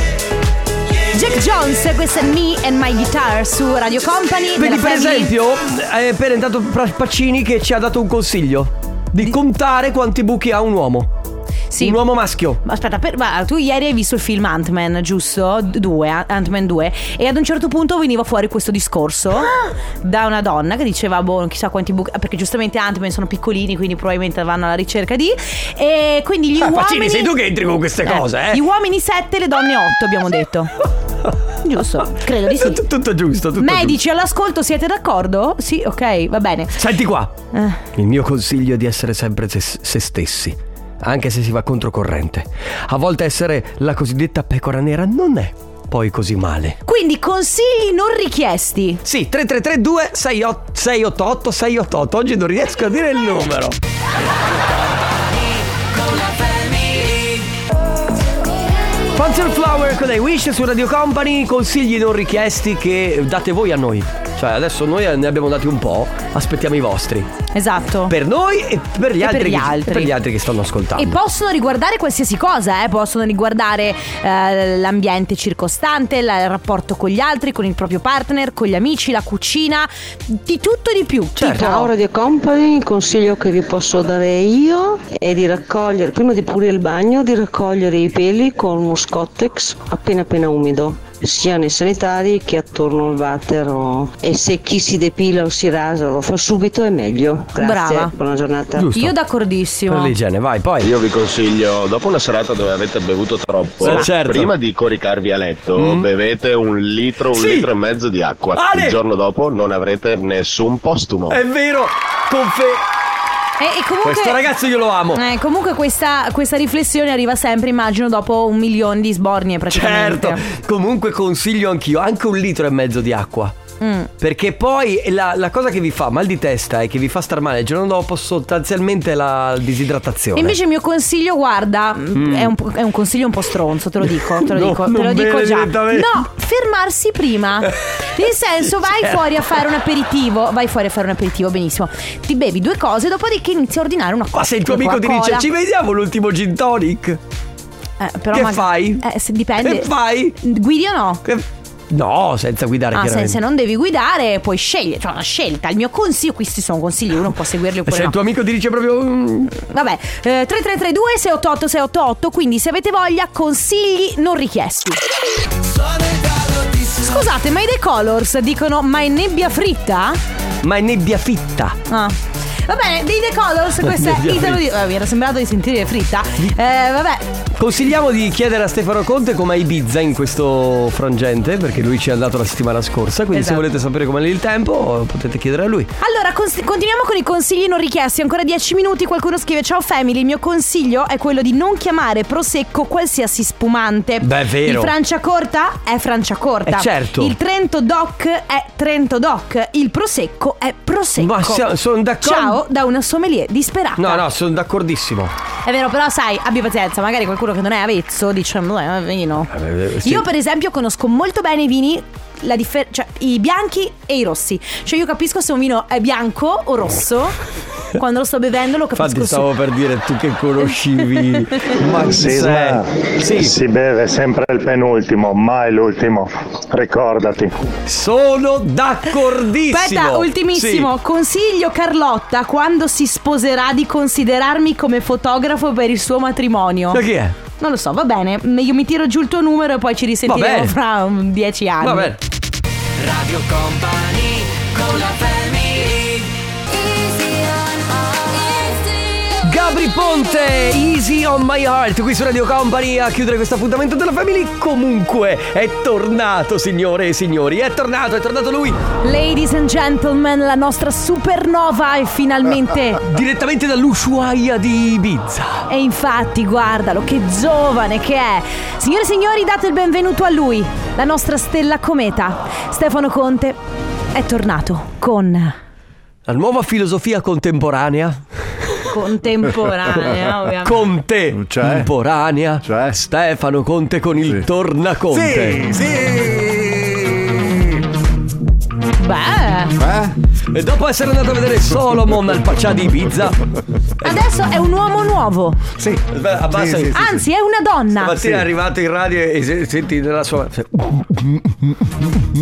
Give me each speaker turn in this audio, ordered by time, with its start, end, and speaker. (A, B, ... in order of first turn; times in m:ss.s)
0:01.1-0:05.3 A
0:04.5-0:11.1 B
0:11.7-0:12.0 A
0:11.8-0:12.6 B
0:12.6-0:27.4 A
0:26.6-0:28.6 B
0:28.0-0:30.7 A
0:31.2-0:34.0 B
0:31.6-0:32.8 A
0:33.6-0:36.9 A
0:36.8-0:37.4 B
0:37.5-0:37.8 A
0:37.9-0:46.8 B
0:46.8-0:49.0 A
0:49.0-0:53.8 B
0:59.0-1:07.3 B
1:07.5-1:08.1 A
1:08.1-1:11.2 B
1:09.2-1:10.1 A
1:11.0-1:21.9 A
1:21.4-1:21.7 B
1:21.4-1:38.9 C
1:37.6-1:38.1 A
1:38.7-1:39.1 B
1:38.9-1:40.2 A
1:39.9-1:40.9 B
1:40.8-1:51.4 D
1:43.8-1:44.5 B
1:45.7-1:46.1 B
1:47.3-1:47.7 B
1:48.5-1:49.0 B
1:51.3-1:52.8 B
1:53.6-1:54.5 A
1:54.0-1:55.2 B
1:55.1-2:00.4 A
1:59.7-2:03.6 B
2:03.8-2:04.1 A
2:04.2-2:10.6 B
2:10.3-2:25.5 A
2:12.1-2:12.5 B
2:14.0-2:16.2 B
2:18.7-2:19.4 B
2:24.3-2:27.2 B
2:28.0-2:31.2 A
2:28.3-2:29.0 B
2:29.6-2:30.4 B
2:31.2-2:33.4 B
2:32.9-2:38.2 A
2:37.8-2:39.5 B
2:39.5-2:45.0 A
2:47.0-2:50.2 A
2:50.6-2:51.8 B
2:51.9-2:57.2 A
2:53.8-2:54.6 B
2:57.6-3:05.9 B
3:03.3-3:03.6 A
3:06.0-3:21.7 A
3:14.2-3:14.9 B
3:16.7-3:17.3 B
3:21.2-3:22.6 B
3:22.2-3:24.2 A
3:24.0-3:25.3 B
3:25.6-3:37.4 A
3:29.5-3:30.2 B
3:37.9-3:39.5 A
3:38.9-3:43.6 B
3:42.0-3:47.6 E
3:47.8-3:50.9 B
3:49.7-3:57.0 A
3:56.9-3:57.4 B
3:57.6-4:02.1 A
4:00.2-4:00.8 B
4:01.8-4:02.2 B
4:03.0-4:06.3 B
4:09.4-4:18.8 B
4:19.0-4:23.0 A
4:23.0-4:25.7 B
4:25.7-4:33.6 A
4:34.1-4:35.5 A
4:36.2-4:38.8 B
4:38.9-4:40.9 A
4:39.9-4:45.8 B
4:41.3-4:41.9 F
4:42.6-4:43.0 F
4:45.1-4:47.0 F
4:49.0-4:49.8 A
4:49.8-4:50.1 F
4:50.5-4:53.4 B
4:54.0-4:55.6 A
4:55.8-4:57.1 F
4:56.1-4:57.2 B
4:56.9-4:58.4 A
4:58.0-5:01.5 B